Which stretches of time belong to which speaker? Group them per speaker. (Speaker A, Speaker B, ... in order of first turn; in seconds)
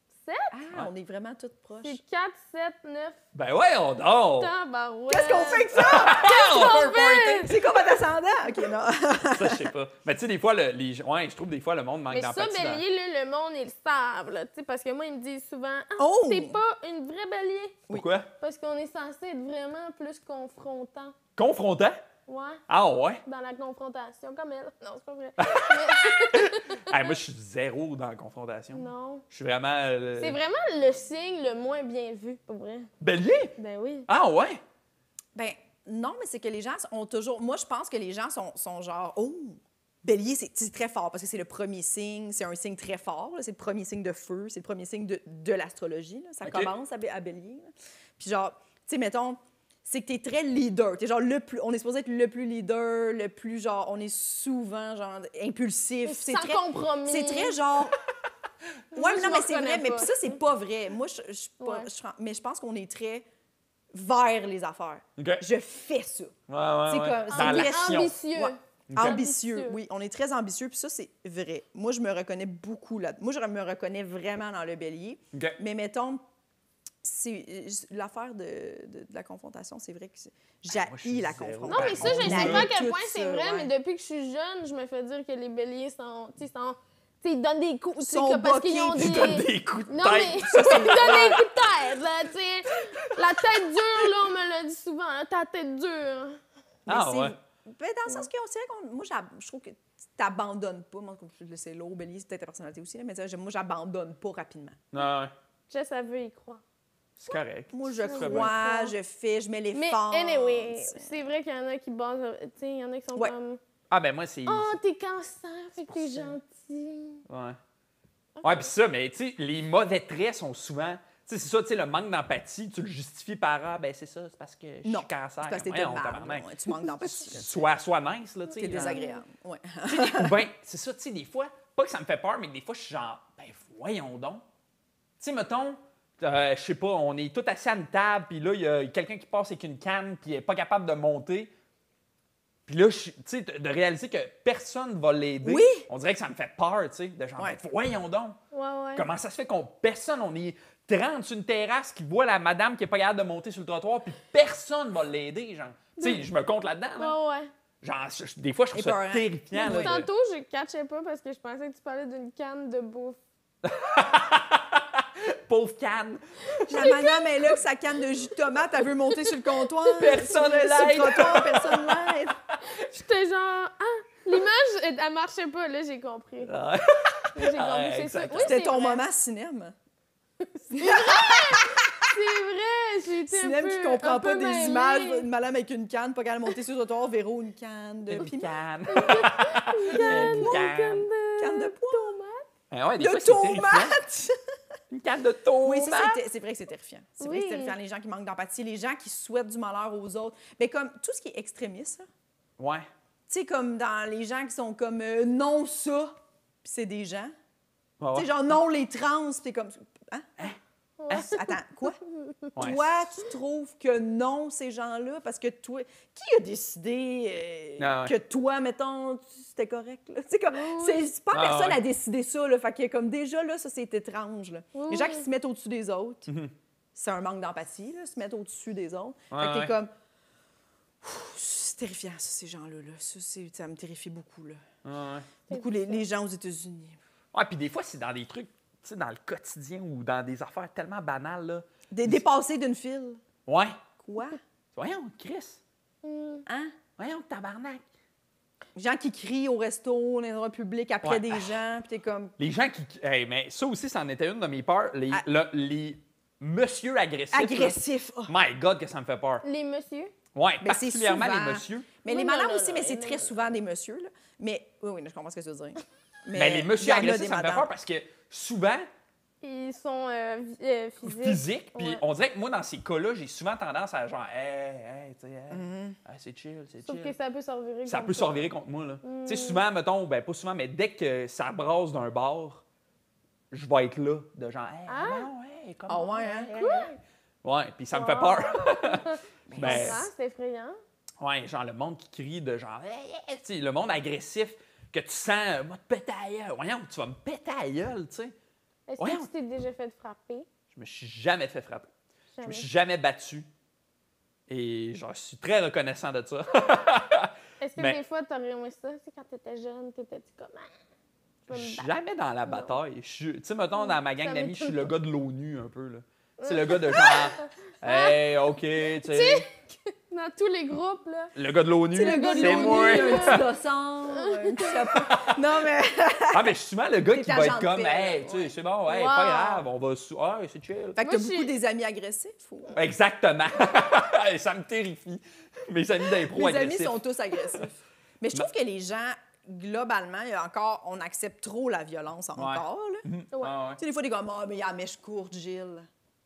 Speaker A: 0.2-0.6, 1.8-3.2, 4.4-7.5, 12.1-17.8, 18.4-21.1, 22.3-22.6, 23.2-27.1, 28.7-29.2, 30.2-32.9, 33.6-34.1, 56.0-57.6, 58.9-60.4, 61.6-61.9, 67.3-69.8, 81.7-96.4, 105.7-106.6, 108.0-108.9, 109.8-113.6, 114.5-117.2, 118.4-118.7, 128.5-129.2, 148.5-149.1, 156.0-156.2, 157.0-157.5, 159.5-163.2, 166.5-167.4, 172.7-176.6, 177.3-179.0, 180.4-185.3, 188.9-192.4, 197.2-197.8, 211.0-211.5, 212.1-212.6, 220.5-221.1, 224.7-225.3, 235.5-236.0, 246.0-246.5, 259.4-260.1, 262.1-263.4, 269.4-272.0, 276.9-278.5, 279.0-279.6, 284.9-285.3, 286.6-286.9, 287.9-290.8, 298.9-300.5, 302.4-302.7, 307.6-310.7, 311.5-311.9, 312.5-312.8, 313.7-314.9, 316.4-318.2, 319.0-321.3, 322.0-323.5, 324.1-325.1, 328.9-329.6, 331.0-331.5, 343.3-343.6
Speaker B: 0.5-2.0, 5.1-6.7, 7.4-9.7, 16.0-16.6, 35.4-58.0, 58.9-63.3, 63.9-76.3, 77.0-83.7, 88.0-89.3, 90.5-91.4, 96.9-104.8, 107.7-111.2, 124.8-127.7, 128.6-130.4, 145.4-145.9, 158.7-159.9, 166.7-172.4, 178.4-179.8, 180.7-181.9, 183.3-189.2, 189.9-190.7, 191.4-192.1, 193.0-194.3, 195.6-202.1, 203.3-207.3, 208.1-210.4, 211.1-212.0, 212.6-226.3, 226.9-229.9, 231.0-234.6, 235.5-237.0, 241.9-243.2, 244.0-244.4, 246.5-246.8, 248.8-252.3, 257.3-258.3, 260.6-267.7, 275.5-276.0, 285.9-286.5, 289.5-290.1, 321.9-326.5, 327.1-328.6, 330.9-332.8, 336.2-343.1, 343.8-345.9
Speaker C: 3.3-4.5, 5.7-7.5, 9.3-12.8, 17.9-18.3, 21.4-22.0, 22.7-23.2, 25.4-30.4, 33.0-33.5, 34.1-34.6, 46.4-46.7, 65.2-65.4, 66.5-68.2, 68.9-69.2, 75.3-75.6, 80.7-82.7, 89.0-91.5, 96.9-97.3, 104.9-105.3, 107.2-108.5, 113.9-114.7, 117.3-117.6, 118.4-129.0, 129.9-134.4, 135.2-141.5, 142.7-148.4, 149.0-157.2, 157.8-160.1, 163.6-166.8, 169.9-172.2, 176.5-178.6, 188.1-191.1, 192.7-194.0, 194.9-196.2, 202.6-202.9, 208.0-208.3, 212.6-212.8, 217.8-218.2, 221.3-221.8, 226.3-226.5, 229.3-229.7, 234.8-235.3, 237.3-242.2, 243.5-243.8, 244.8-245.6, 247.0-247.8, 251.0-251.6, 252.4-259.4, 260.4-261.9, 266.4-268.9, 271.1-277.1, 277.9-282.6, 283.5-290.1, 291.2-298.3, 299.0-299.3, 300.7-301.9, 302.4-303.5, 304.5-308.0, 311.5-319.4, 321.4-323.5, 325.0-325.4, 326.3-331.0, 332.7-337.0, 342.4-343.8